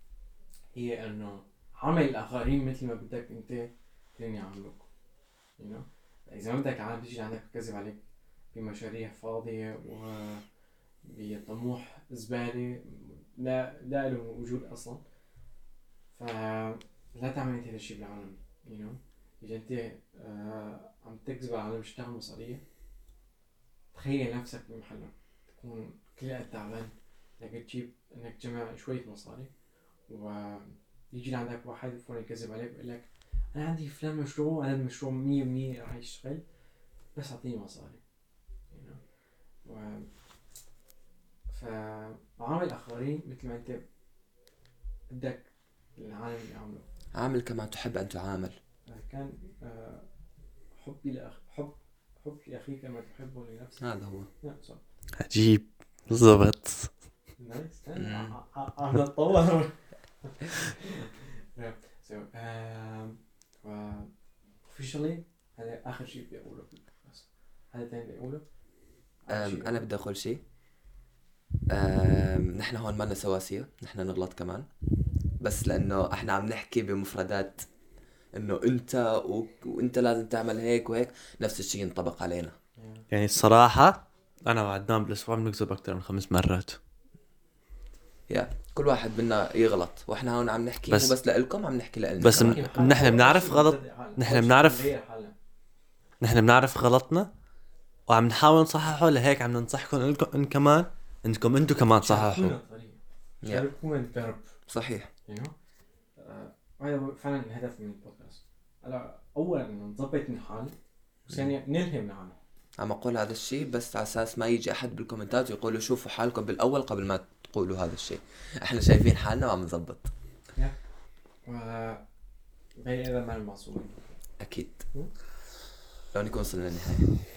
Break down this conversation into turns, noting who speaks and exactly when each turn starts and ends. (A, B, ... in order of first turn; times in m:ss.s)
0:00.7-0:04.9 A
0:05.6-0:08.0 A
0:08.5-0:10.4 A
0:11.0-0:15.0 A
0:16.2-0:22.6 A
0:23.9-0:29.5 A
0:30.1-0:36.4 A
0:37.2-0:38.0 A
0:38.7-0:39.0 A
0:39.6-0:40.1 A
0:41.5-0:43.8 A
0:45.1-0:46.8 A
0:47.1-0:48.6 B
0:48.9-0:50.0 A
0:50.8-0:53.8 A
0:53.8-0:54.3 B
0:54.4-0:54.8 A
0:55.2-0:56.9 C
0:57.4-0:59.7 A
0:58.0-0:58.4 B
1:00.2-1:04.1 A
1:04.7-1:08.4 A
1:09.3-1:09.8 A
1:09.3-1:10.4 B
1:11.7-1:14.7 B
1:15.4-1:17.7 B
1:18.3-1:22.6 B
1:22.8-1:23.0 A
1:23.1-1:26.8 C
1:28.3-1:32.6 B
1:32.2-1:34.9 C
1:32.3-1:35.3 A
1:36.2-1:37.3 C
1:38.1-1:42.6 C
1:42.0-1:44.5 A
1:44.7-1:45.1 B
1:45.3-1:45.5 A
1:46.2-1:50.7 A
1:51.3-1:52.4 A
1:52.8-2:00.1 B
2:01.5-2:02.0 A
2:02.8-2:04.1 A
2:04.4-2:04.8 B
2:06.1-2:07.1 B